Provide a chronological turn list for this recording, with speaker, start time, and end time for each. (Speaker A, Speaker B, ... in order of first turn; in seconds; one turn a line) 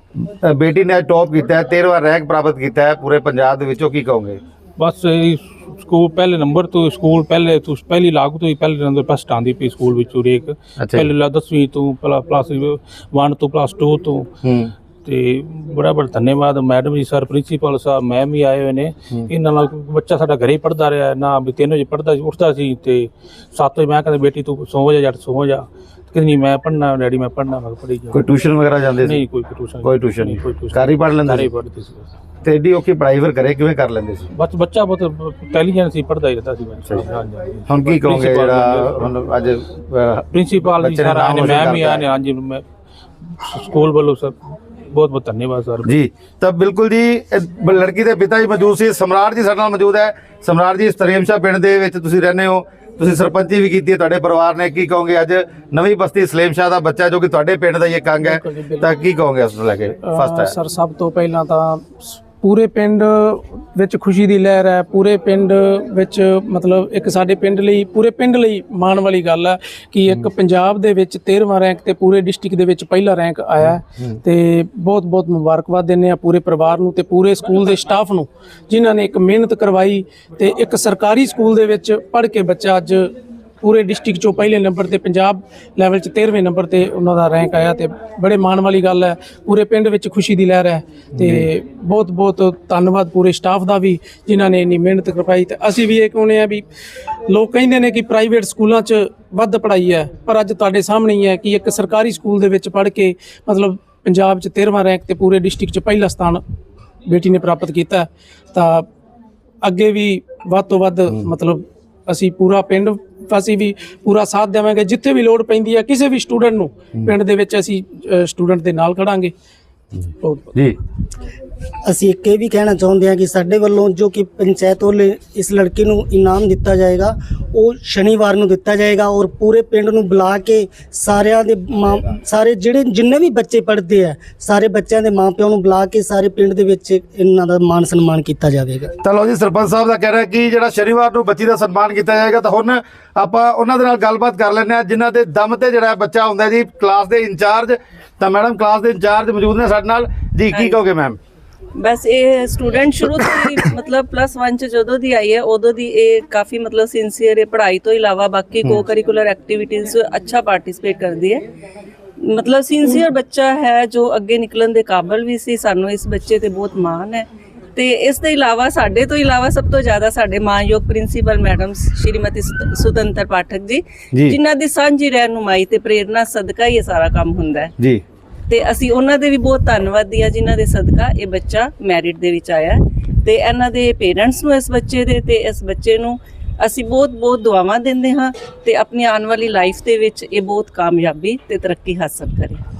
Speaker A: 0.2-4.4
Speaker B: 4.8-14.3
Speaker A: 10.8-11.1
Speaker A: 14.4-14.7
Speaker B: 15.0-28.3
Speaker A: 28.1-29.2
Speaker B: 28.9-32.1
Speaker A: 29.8-31.5
Speaker A: 32.4-34.3
Speaker B: 34.3-39.1
Speaker A: 37.7-42.0
Speaker B: 40.3-42.6
Speaker B: 43.5-44.4
Speaker B: 44.9-45.9
Speaker A: 45.8-60.5
Speaker C: 58.2-58.9
Speaker C: 60.0-83.1
Speaker A: 73.6-74.1
Speaker C: 83.6-96.6
Speaker C: 97.3-106.4
Speaker C: 107.0-108.8
Speaker C: 109.6-119.3
Speaker C: 120.2-120.5
Speaker D: 121.9-138.9
Speaker A: 139.0-151.2
Speaker E: 151.8-161.4
Speaker E: 162.2-177.7
Speaker E: 178.5-192.6